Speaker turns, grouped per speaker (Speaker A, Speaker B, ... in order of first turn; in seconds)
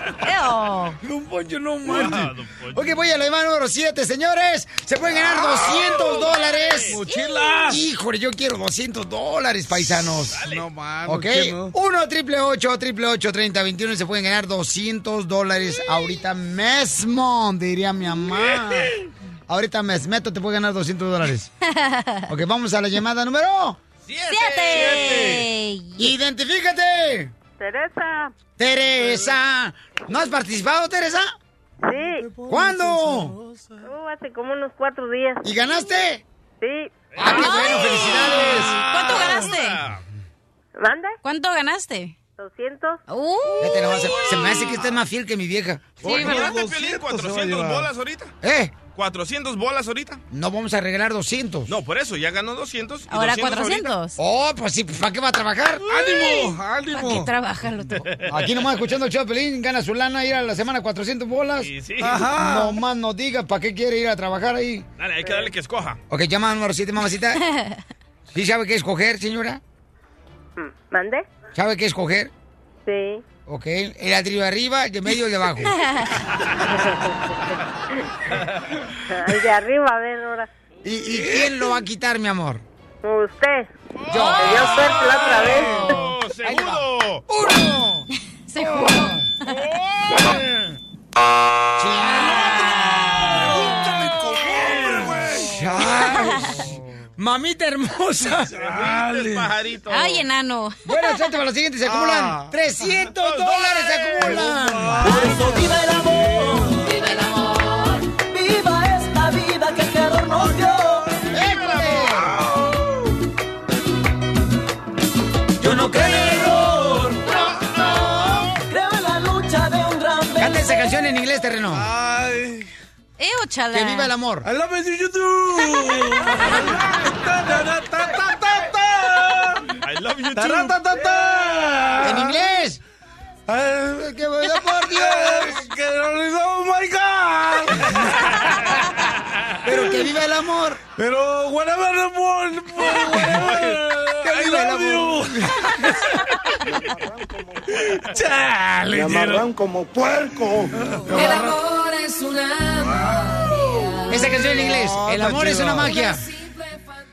Speaker A: 0.2-1.0, 7.0-7.6, 21.6-22.3, 24.3-26.1, 37.2-39.8, 41.2-42.2, 43.1-44.7, 53.1-54.2, 56.1-58.0, 67.4-67.8, 75.7-76.2, 88.5-89.6, 92.2-92.9, 99.9-101.1, 123.2-124.1, 125.6-126.6, 151.1-151.8
Speaker B: 1.0-7.0, 7.7-10.4, 11.1-18.9, 19.5-21.5, 22.3-23.8, 26.0-27.3, 28.6-31.3, 32.5-33.3, 35.4-36.2, 37.2-38.8, 43.6-46.5, 48.4-48.7, 50.3-51.7, 54.2-55.9, 58.2-61.7, 62.4-64.8, 66.1-67.4, 68.3-69.6, 71.5-72.3, 73.5-75.7, 80.8-82.6, 84.1-84.8, 86.4-88.1, 88.6-89.2, 91.8-92.8, 95.2-98.5, 100.8-105.1, 111.3-112.3, 115.6-116.4, 117.9-118.3, 120.4-121.9, 123.7-124.5, 132.0-132.8, 134.0-135.7, 139.6-140.8, 143.2-143.5, 144.2-145.7, 154.1-156.2
Speaker C: 1.8-3.0, 6.2-7.0, 10.3-10.7, 24.0-25.5, 37.1-40.0, 43.9-44.8, 46.0-48.3, 48.9-50.2, 51.7-53.9, 58.0-58.4, 61.6-62.4, 65.0-66.0, 84.0-87.2, 89.5-90.3, 98.5-100.2, 103.1-104.5, 129.8-130.8
Speaker D: 5.2-6.2, 6.9-7.8, 10.4-11.7, 32.2-33.8, 46.0-47.9, 55.9-57.3, 62.0-62.8, 84.1-85.7, 92.1-96.8, 98.5-99.5, 101.8-102.5, 104.2-106.8, 111.8-112.9, 121.7-122.7, 124.4-129.7, 130.3-132.4, 133.5-134.1, 134.8-138.8, 140.9-146.0, 147.7-149.5, 150.7-151.6, 152.8-156.1
Speaker E: 27.6-28.3, 31.8-32.3, 33.8-35.5, 36.6-37.0, 40.8-41.2, 42.4-43.0, 70.6-71.2, 72.8-73.2, 76.7-77.5, 79.1-80.5, 83.0-83.7, 84.3-85.9
Speaker F: 105.0-111.1, 115.6-117.3, 118.7-120.6
Speaker G: 146.7-147.6, 148.9-150.7